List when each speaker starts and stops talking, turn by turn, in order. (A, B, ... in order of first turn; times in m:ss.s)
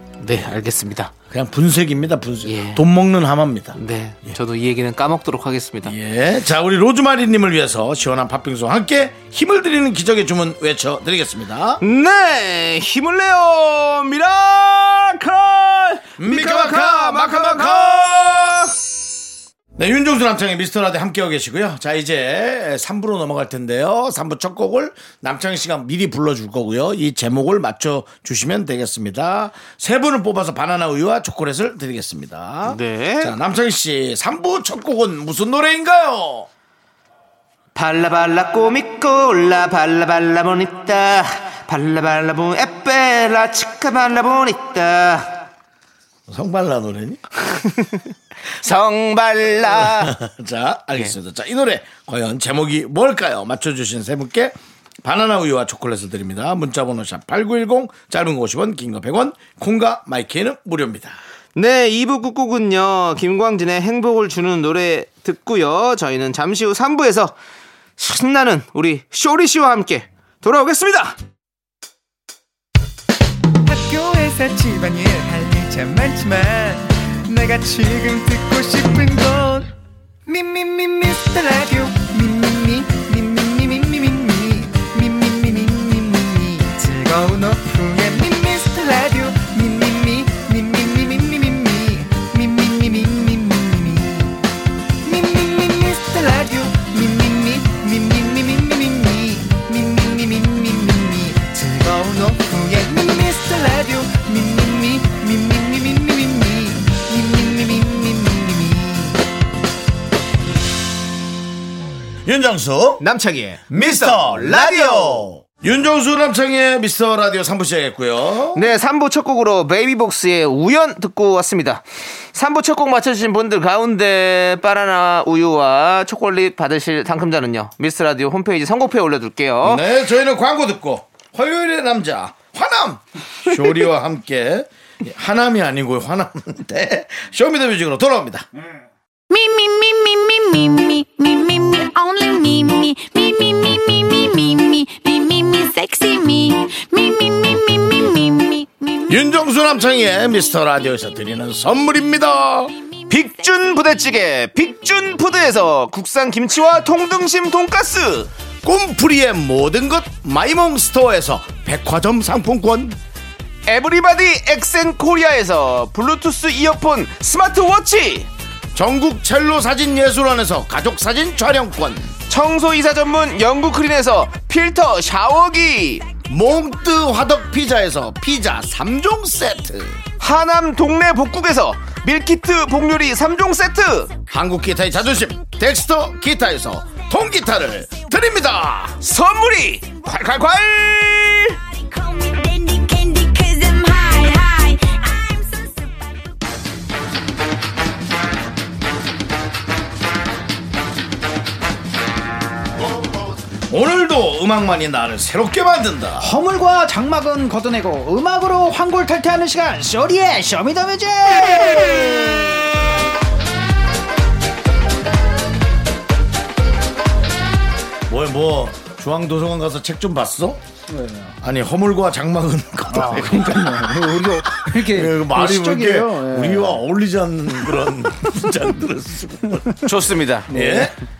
0:00.2-0:01.1 A
0:01.3-0:04.4 B
0:02.4-0:02.8 A
0:03.8-0:06.0 A
0:05.8-0:11.8 B
0:11.8-0:18.7 A
0:16.2-0:18.4 B
0:19.8-0:36.5 B
0:32.7-0:33.4 A
0:37.8-0:45.4 A
0:46.3-0:47.2 B
0:47.4-0:50.2 A
0:49.8-1:01.2 B
1:01.6-1:07.4 A
1:08.0-1:11.2 A
1:13.7-1:19.7 C
1:20.3-1:34.4 C
1:35.0-1:49.2 C
1:52.2-1:53.0 B
1:53.0-1:55.3 A
1:53.7-1:58.6 B
1:58.5-2:09.8 A
2:09.6-2:18.5 B
2:19.3-2:29.2 D
2:29.1-2:32.7 B
2:33.1-2:38.3 A
2:38.6-2:43.0 B
2:43.7-2:48.3 A
2:48.7-2:52.1 B
2:52.3-2:56.1 A
2:56.3-3:00.0 B
3:00.2-3:04.1 A
3:04.3-3:09.0 B
3:09.0-3:11.6 A
3:11.6-3:16.4 D
3:23.5-3:26.3 B
3:26.2-3:32.8 E
3:38.1-3:40.6 B
3:40.9-3:41.4 E
3:41.4-3:49.7 B
3:42.9-3:46.8 E
3:49.8-3:50.9 A
3:50.5-3:51.0 B
3:50.5-3:51.0 E